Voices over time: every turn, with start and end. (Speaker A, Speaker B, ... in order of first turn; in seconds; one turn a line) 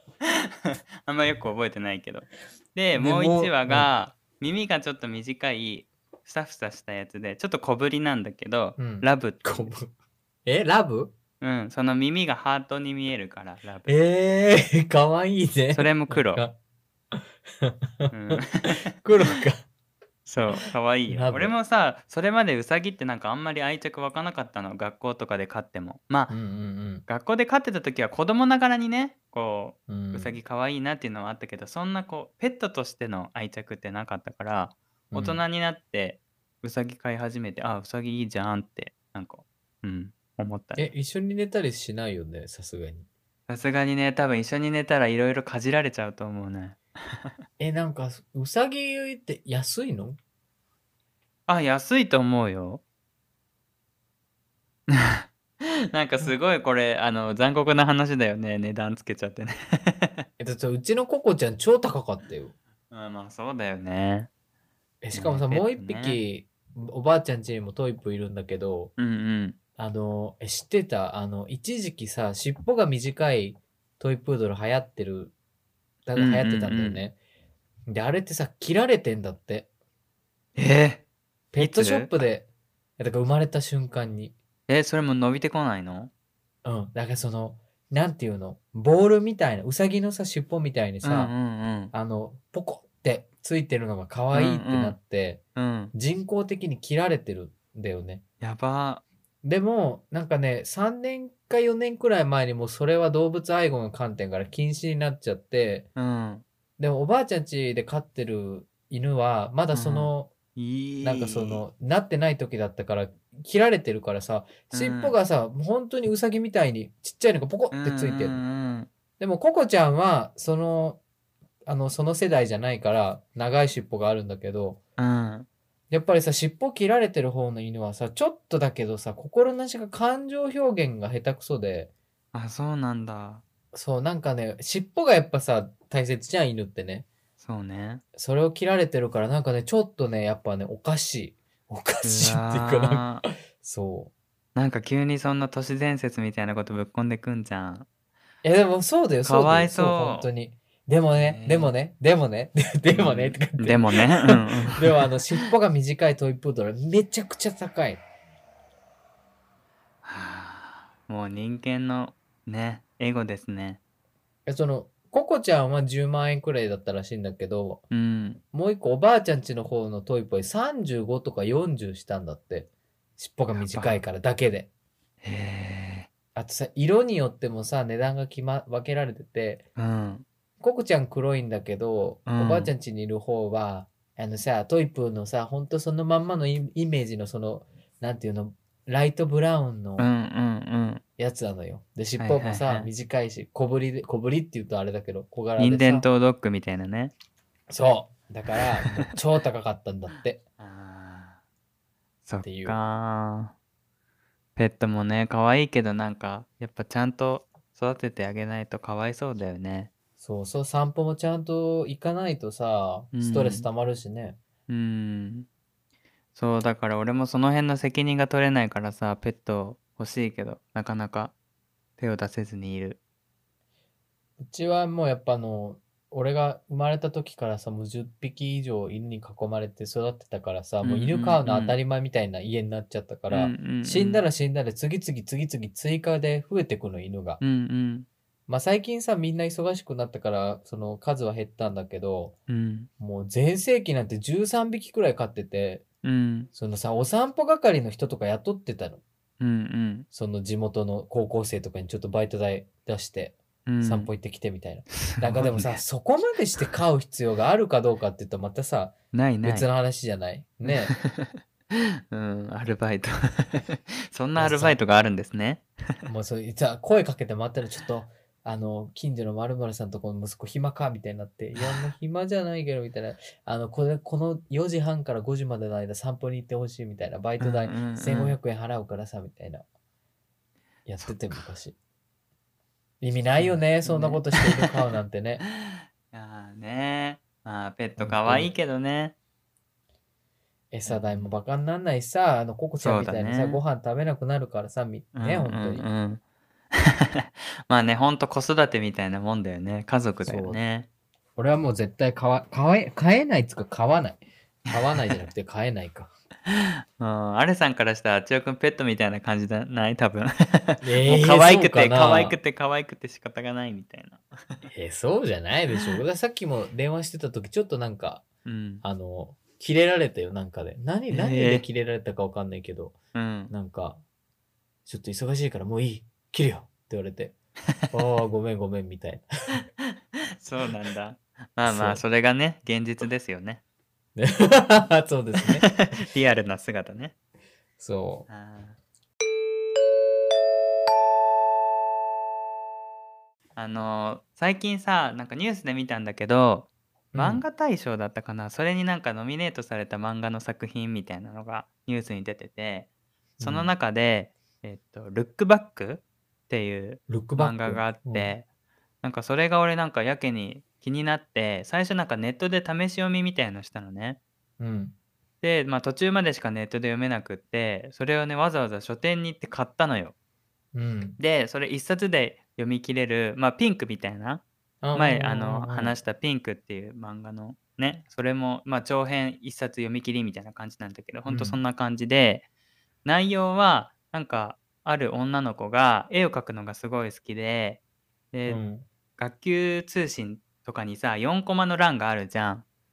Speaker A: 0.2-9.7
Speaker B: 2.9-3.9
Speaker B: 8.8-9.9
Speaker B: 10.4-11.1
Speaker A: 11.4-13.9
Speaker B: 13.9-16.5
Speaker A: 15.7-16.4
Speaker B: 17.1-19.6
Speaker A: 18.1-18.9
Speaker A: 20.2-26.3
Speaker B: 21.1-21.5
Speaker B: 26.3-27.1
Speaker A: 27.1-40.9
Speaker B: 29.9-30.4
Speaker B: 35.1-35.4
Speaker B: 40.8-43.1
Speaker A: 43.5-47.3
Speaker B: 47.6-50.2
Speaker A: 51.5-52.8
Speaker A: 54.9-55.3
Speaker A: 55.9-60.2
Speaker B: 60.4-62.5
Speaker A: 62.9-64.3
Speaker B: 65.0-68.9
Speaker A: 65.1-66.2
Speaker A: 69.0-69.5
Speaker B: 69.8-75.3
Speaker B: 76.0-77.2
Speaker A: 76.2-77.0
Speaker B: 77.9-79.7
Speaker A: 80.5-81.0
Speaker B: 81.5-82.5
Speaker A: 81.6-82.2
Speaker B: 83.0-84.3
Speaker A: 84.7-86.1
Speaker B: 86.6-91.3
Speaker A: 91.0-91.9
Speaker B: 91.9-95.4
Speaker A: 94.3-95.0
Speaker A: 95.5-95.9
Speaker B: 95.9-98.2
Speaker A: 98.4-99.0
Speaker B: 99.4-105.9
Speaker A: 106.0-106.4
Speaker B: 106.8-110.3
Speaker A: 109.7-111.6
Speaker B: 111.0-118.4
Speaker A: 114.7-115.1
Speaker A: 117.7-118.9
Speaker B: 119.2-121.0
Speaker B: 121.7-124.8
Speaker A: 125.0-125.5
Speaker B: 125.9-131.9
Speaker A: 132.3-133.4
Speaker B: 133.7-137.1
Speaker A: 137.4-138.0
Speaker B: 138.1-144.1
Speaker A: 142.0-143.2
Speaker A: 144.5-147.8
Speaker B: 148.4-158.0
Speaker A: 149.2-150.3
Speaker A: 151.1-151.7
Speaker A: 152.9-155.1
Speaker A: 160.0-163.8
Speaker B: 164.4-167.8
Speaker A: 167.9-168.4
Speaker B: 168.5-174.7
Speaker A: 173.6-174.0
Speaker A: 175.2-176.1
Speaker B: 176.3-179.6
Speaker A: 179.8-180.2
Speaker B: 180.6-190.1
Speaker A: 182.3-182.7
Speaker A: 190.0-191.0
Speaker B: 191.2-196.1
Speaker A: 192.2-192.9
Speaker A: 195.6-197.1
Speaker B: 197.7-200.4
Speaker A: 198.8-199.1
Speaker A: 200.6-201.4
Speaker A: 202.2-203.5
Speaker B: 202.4-202.8
Speaker A: 204.6-209.9
Speaker B: 210.2-214.4
Speaker A: 213.1-213.7
Speaker A: 214.7-215.5
Speaker A: 216.3-221.3
Speaker A: 222.0-223.0
Speaker B: 224.4-237.4
Speaker A: 230.8-231.8
Speaker A: 233.3-234.2
Speaker A: 237.4-238.1
Speaker B: 238.5-242.3
Speaker A: 242.5-242.9
Speaker B: 243.0-245.8
Speaker A: 246.0-246.5
Speaker B: 246.5-249.0
Speaker A: 249.4-250.1
Speaker B: 250.1-260.9
Speaker A: 253.7-254.1
Speaker A: 255.0-255.8
Speaker A: 259.1-259.6
Speaker A: 260.6-265.6
Speaker B: 264.4-264.8
Speaker B: 266.1-279.6
Speaker A: 271.5-271.9
Speaker A: 277.4-278.4
Speaker B: 280.9-281.8
Speaker A: 281.0-281.4
Speaker B: 283.0-285.4
Speaker A: 283.4-284.7
Speaker A: 285.4-289.1
Speaker B: 288.0-288.5
Speaker B: 290.7-295.9
Speaker A: 290.9-291.3
Speaker A: 292.8-293.6
Speaker A: 295.1-296.2
Speaker A: 296.7-300.9
Speaker B: 300.2-300.6
Speaker B: 301.4-306.1
Speaker A: 304.7-305.2
Speaker A: 306.5-314.6
Speaker B: 310.8-312.4
Speaker B: 314.7-318.3
Speaker A: 318.4-318.8
Speaker B: 318.8-322.9
Speaker A: 321.1-321.6
Speaker A: 323.1-323.5
Speaker B: 323.5-324.0
Speaker B: 324.9-327.3
Speaker B: 327.9-329.6
Speaker A: 330.4-333.6
Speaker B: 331.6-332.0
Speaker B: 334.1-335.7
Speaker A: 335.6-337.1
Speaker B: 337.8-338.3
Speaker A: 338.3-338.8
Speaker A: 343.6-358.4
Speaker B: 347.1-347.4
Speaker B: 353.4-353.7
Speaker B: 357.1-358.3
Speaker A: 359.0-364.2
Speaker B: 364.6-364.9
Speaker A: 365.4-370.1
Speaker B: 370.7-371.2
Speaker A: 371.2-382.4
Speaker B: 374.8-376.0
Speaker B: 381.3-381.6
Speaker A: 383.0-387.8
Speaker A: 388.3-388.6
Speaker B: 388.5-388.8
Speaker A: 389.2-392.6